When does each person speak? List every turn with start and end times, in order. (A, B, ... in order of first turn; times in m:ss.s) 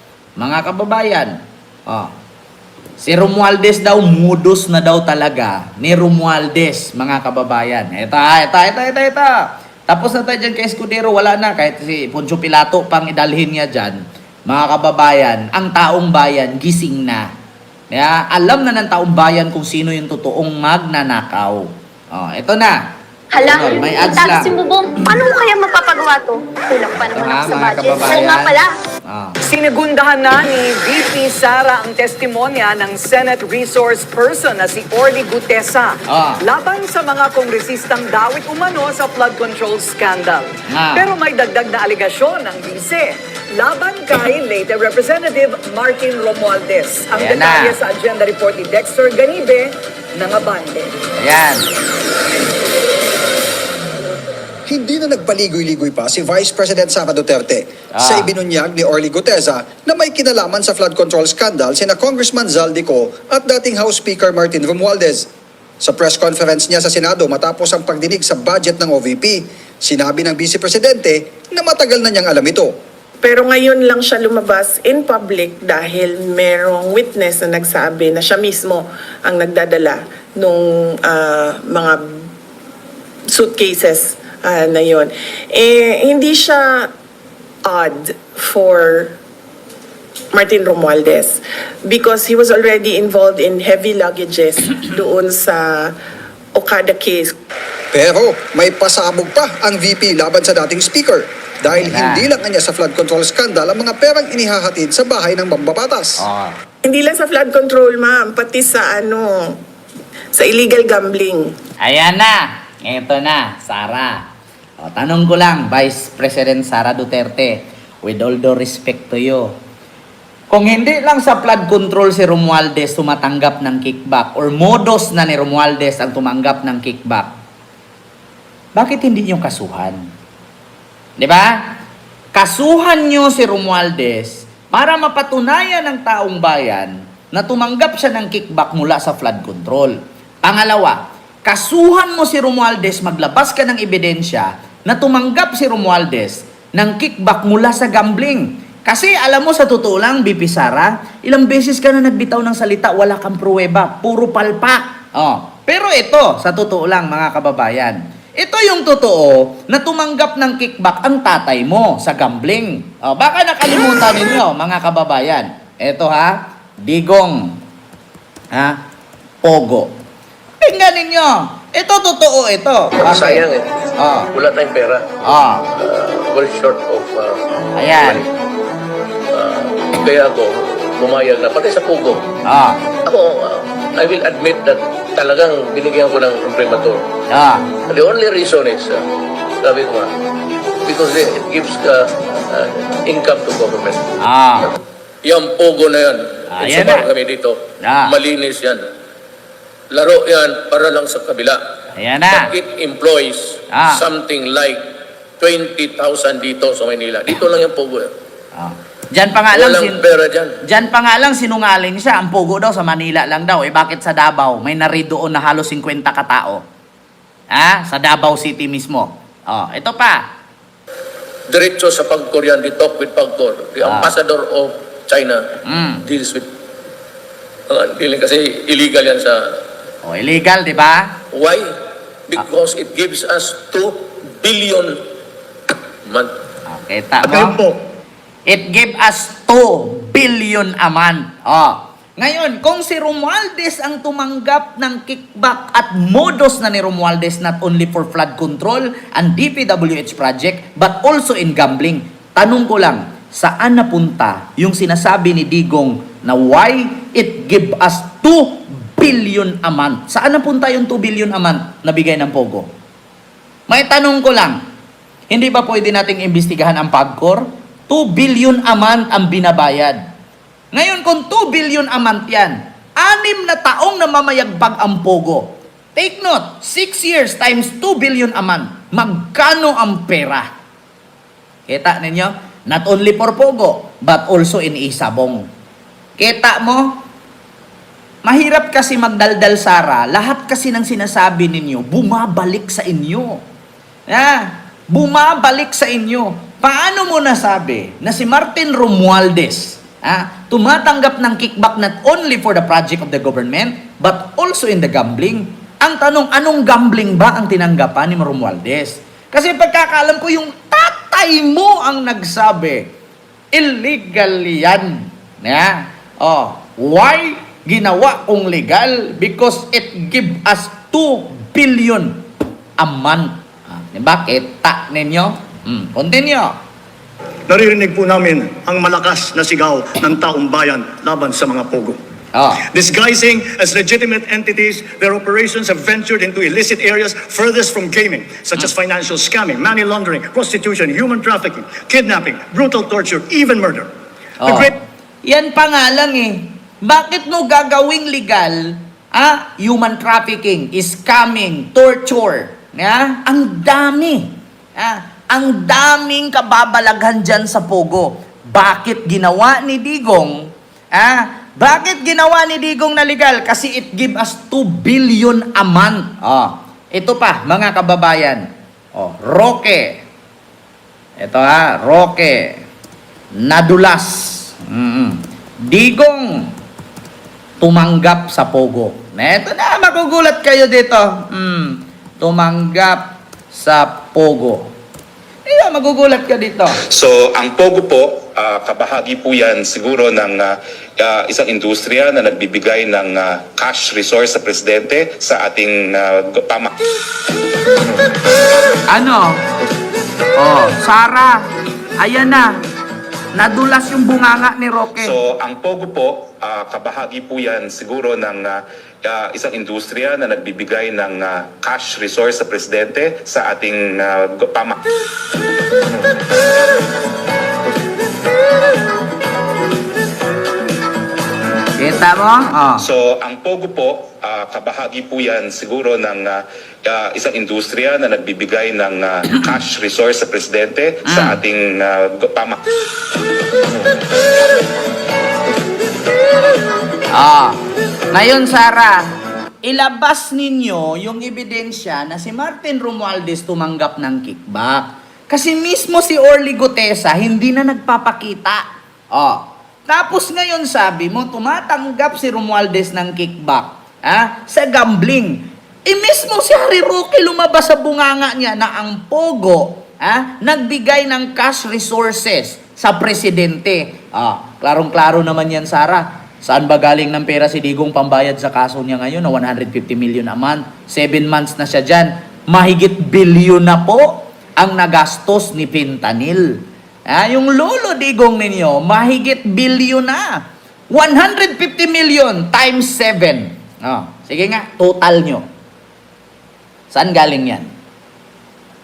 0:00.4-0:01.3 A
0:01.9-0:02.1 A
0:03.0-0:17.3 A
0:17.9-0:22.8 A
0:23.3-0:28.7 B
0:23.5-0:24.5 A
0:27.1-0:29.4 A
0:29.4-0:51.0 C
0:36.1-0:36.4 A
0:40.7-0:41.1 A
0:47.1-0:47.8 A
0:51.2-0:51.7 A
0:54.7-1:05.2 D
0:57.9-0:58.3 A
1:05.8-1:12.7 D
1:13.2-1:22.0 E
1:23.3-1:26.9 E
1:27.6-1:29.1 E
1:30.3-1:35.9 E
1:36.5-1:37.3 E
1:37.9-1:46.2 D
1:41.8-1:42.2 A
1:46.2-1:46.6 A
1:46.8-1:49.6 E
1:50.3-1:51.5 E
1:51.8-1:54.2 A
1:54.8-1:59.5 A
2:00.5-2:07.3 A
2:08.8-2:10.0 A
2:11.2-2:11.6 A
2:12.3-2:47.6 A
2:48.5-2:48.8 A
2:49.4-2:49.9 A
2:50.6-2:53.4 A
2:53.0-2:53.7 F
2:54.0-2:54.3 A
2:54.3-2:55.0 F
2:55.2-2:55.7 A
2:55.7-2:57.4 F
2:57.7-2:58.2 A
2:57.9-2:58.3 F
2:59.3-3:02.3 F
3:02.4-3:02.8 A
3:03.0-3:07.1 F
3:07.3-3:07.7 A
3:07.9-3:09.0 F
3:09.6-3:10.1 F
3:10.8-3:14.1 F
3:14.2-3:14.7 A
3:15.2-3:18.8 F
3:16.5-3:17.1 A
3:17.8-3:18.1 A
3:19.9-3:21.6 F
3:22.0-3:22.5 A
3:22.3-3:24.8 F
3:23.7-3:24.0 A
3:25.4-3:28.1 F
3:28.6-3:30.0 A
3:29.5-3:30.5 F
3:30.6-3:36.6 A
3:37.5-3:40.2 A
3:41.5-3:45.4 F
3:43.8-3:44.1 A
3:45.6-3:46.0 A
3:46.0-3:46.5 F
3:47.7-3:49.4 F
3:50.0-3:51.2 A
3:51.3-3:51.7 F
3:52.3-3:55.0 F
3:56.0-3:56.3 F
3:56.7-3:57.6 A
3:57.2-3:57.8 G
3:58.5-4:22.7 A
4:23.7-4:24.6 A
4:25.3-4:30.0 A
4:30.7-4:40.5 A
4:41.7-4:45.5 A
4:46.2-4:47.0 A
4:48.2-4:53.4 A
4:54.1-5:12.9 A
5:13.5-5:22.2 A
5:22.8-5:26.6 A
5:27.5-5:32.0 G
5:32.3-5:32.6 A
5:32.7-5:43.9 G
5:44.4-5:44.7 A
5:44.4-5:44.8 G
5:45.2-6:10.0 A
6:11.2-6:12.6 A
6:13.4-6:16.5 A
6:17.6-6:24.7 A
6:25.5-6:26.8 A
6:26.9-6:36.7 H
6:38.9-6:39.4 A
6:40.4-6:41.4 A
6:42.0-6:42.6 A
6:43.3-6:45.2 A
6:45.0-6:54.8 H
7:01.8-7:02.8 A
7:02.8-7:12.6 H
7:11.1-7:11.4 A
7:17.1-7:17.6 A
7:18.1-7:19.1 A
7:19.6-8:05.4 A
8:06.9-8:07.7 A